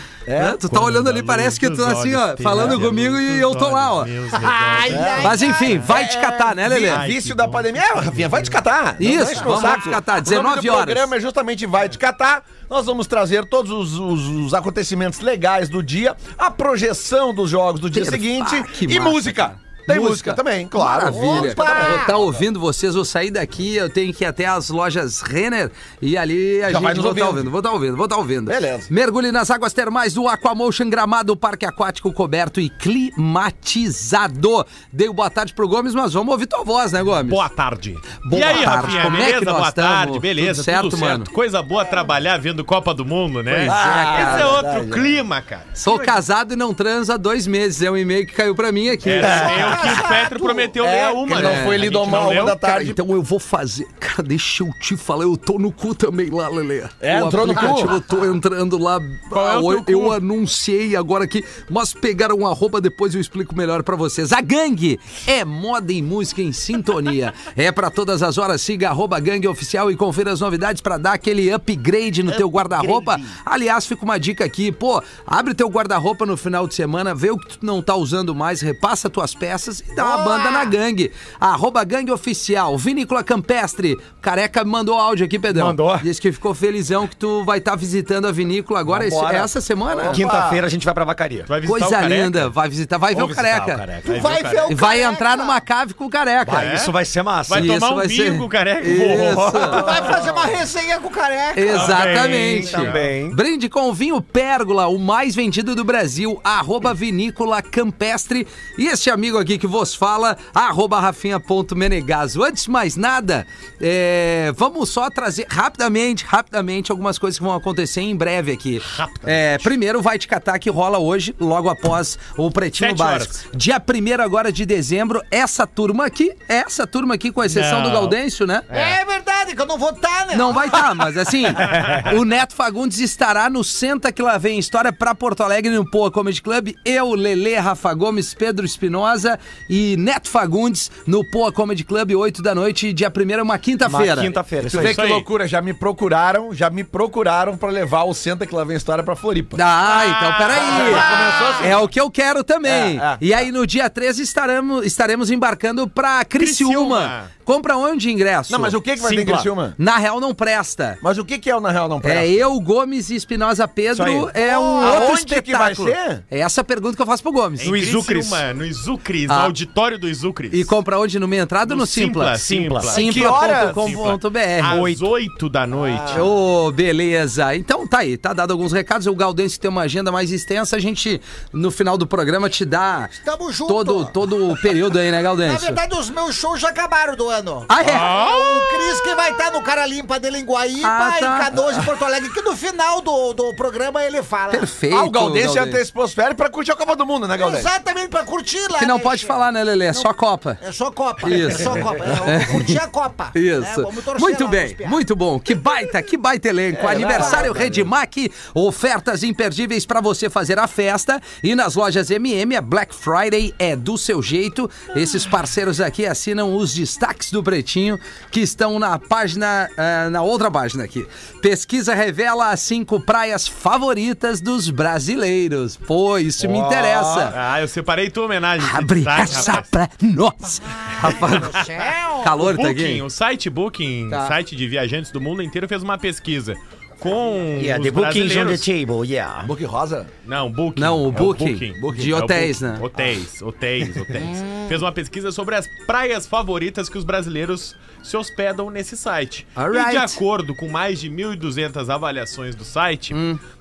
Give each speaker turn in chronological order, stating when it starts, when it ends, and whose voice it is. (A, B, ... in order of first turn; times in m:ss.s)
0:00.2-0:00.6 A
0:00.3-0:04.1 B
0:00.7-0:05.7 C
0:02.5-0:02.9 A
0:04.3-0:06.3 D
0:04.9-0:22.2 A
0:05.2-0:07.0 B
0:06.9-0:08.6 C
0:09.0-0:11.1 B
0:17.9-0:37.4 B
0:21.0-0:22.2 D
0:26.6-0:27.5 A
0:28.4-0:28.9 A
0:37.2-0:46.1 C
0:38.2-0:41.3 B
0:43.5-0:44.6 B
0:43.6-0:45.1 A
0:45.8-0:49.7 B
0:49.0-0:52.6 C
0:49.2-0:50.1 A
0:49.2-0:50.7 D
0:50.8-0:53.0 A
0:51.3-1:30.2 B
0:57.0-0:57.9 A
0:59.3-1:00.2 C
1:12.7-1:13.2 A
1:20.0-1:20.7 D
1:25.5-1:26.1 E
1:28.9-1:29.5 E
1:29.9-1:30.6 A
1:30.1-1:31.5 E
1:31.5-1:32.5 C
1:31.6-1:33.8 B
1:33.1-1:34.4 E
1:34.0-1:34.7 C
1:34.0-1:35.6 D
1:34.7-1:36.8 B
1:36.4-1:37.7 E
1:36.6-1:36.9 C
1:37.5-1:39.8 C
1:37.5-1:39.8 B
1:39.0-1:40.1 E
1:39.7-1:42.1 D
1:41.5-2:08.7 B
1:41.7-1:43.1 C
1:41.8-1:43.4 E
1:58.9-1:59.4 C
2:02.8-2:03.4 C
2:07.5-2:08.2 C
2:08.7-2:09.0 C
2:08.7-2:11.8 D
2:10.3-2:24.4 B
2:11.6-2:12.0 C
2:23.8-2:25.0 E
2:24.6-2:29.6 A
2:24.8-2:25.3 C
2:29.5-2:38.8 B
2:29.8-2:31.8 D
2:30.5-2:31.8 A
2:32.7-2:33.2 A
2:36.4-2:37.3 C
2:38.5-2:39.8 A
2:39.0-2:39.4 E
2:39.8-2:41.0 B
2:41.0-2:42.4 A
2:42.0-2:47.7 B
2:43.9-2:46.2 A
2:47.6-2:50.7 C
2:47.6-2:48.4 E
2:49.3-2:49.5 B
2:50.5-2:54.8 B
2:51.6-2:56.2 C
2:52.4-2:53.0 E
2:52.9-2:54.0 A
2:54.6-2:55.1 E
2:55.8-2:56.2 A
2:56.1-3:03.1 B
3:03.2-3:04.2 D
3:03.6-3:05.8 B
3:05.4-3:14.7 D
3:07.7-3:08.2 B
3:10.8-3:11.5 B
3:14.5-3:15.8 B
3:14.9-3:17.7 A
3:17.4-3:25.0 D
3:18.8-3:20.6 B
3:21.2-3:22.8 B
3:23.3-3:47.3 B
3:26.7-3:27.9 A
3:27.0-3:27.5 D
3:46.4-3:47.3 A
3:47.3-3:49.7 C
3:48.6-3:51.6 B
3:50.6-3:52.4 D
3:52.2-3:53.0 B
3:52.4-3:58.7 C
3:57.5-3:59.5 E
3:59.4-4:00.1 A
4:00.2-4:13.2 C
4:00.8-4:02.8 B
4:01.8-4:02.2 A
4:09.6-4:10.2 B
4:13.1-4:13.4 B